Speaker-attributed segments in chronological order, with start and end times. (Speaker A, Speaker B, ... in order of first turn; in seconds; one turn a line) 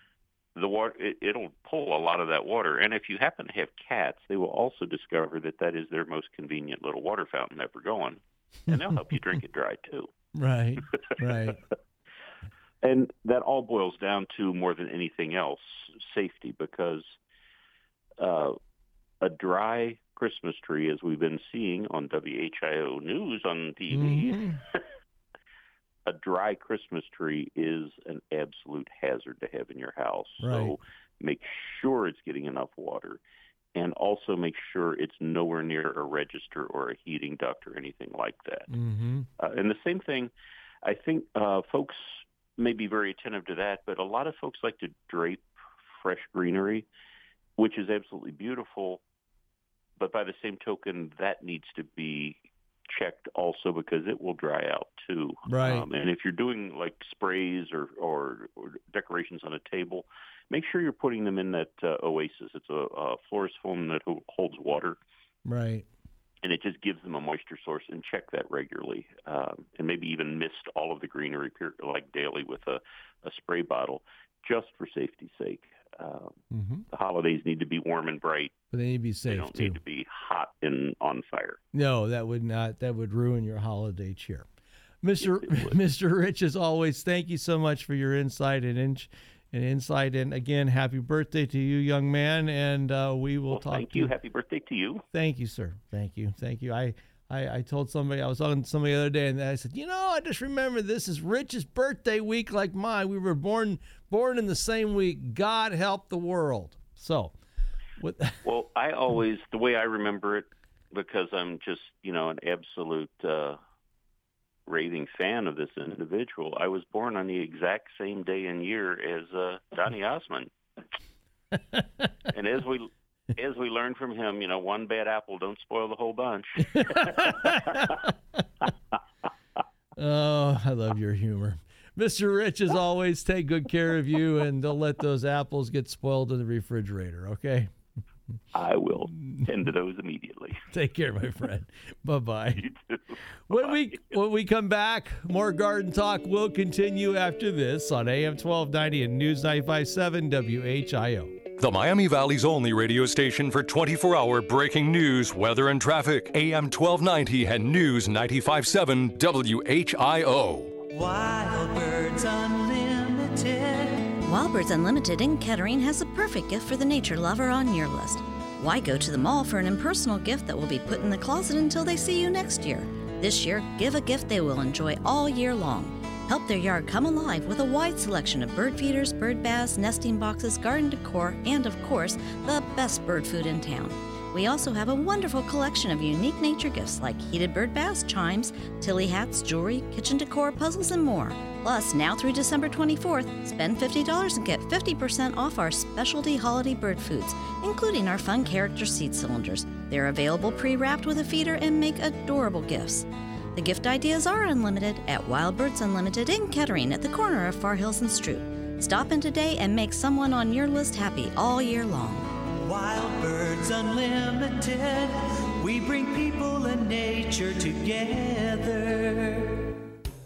Speaker A: 0.6-10.1
Speaker B: 10.3-11.6
Speaker A: 12.8-17.2
Speaker A: 18.2-18.5
Speaker A: 19.2-24.4
Speaker B: 23.9-24.6
Speaker A: 26.1-33.2
Speaker B: 30.4-30.7
Speaker A: 33.7-38.7
Speaker B: 38.7-39.3
Speaker A: 39.4-40.3
Speaker A: 40.8-46.9
Speaker A: 47.6-49.0
Speaker A: 50.0-65.0
Speaker B: 55.5-55.8
Speaker B: 65.4-65.8
Speaker A: 66.4-76.4
Speaker B: 76.5-76.8
Speaker A: 76.9-78.5
Speaker B: 78.7-79.8
Speaker A: 79.3-81.6
Speaker B: 81.7-84.5
Speaker B: 85.0-94.1
Speaker A: 93.5-95.0
Speaker B: 95.1-107.3
Speaker B: 108.0-108.3
Speaker A: 108.4-113.6
Speaker A: 114.7-120.5
Speaker A: 122.3-127.9
Speaker B: 126.7-128.1
Speaker B: 130.0-137.7
Speaker A: 138.5-140.6
Speaker B: 139.2-139.5
Speaker B: 140.7-142.6
Speaker A: 142.6-143.0
Speaker B: 143.5-151.4
Speaker A: 143.5-143.8
Speaker C: 151.6-160.8
Speaker D: 161.2-161.6
Speaker D: 162.2-163.9
Speaker E: 164.3-212.2
Speaker D: 212.8-215.1
Speaker D: 215.7-219.4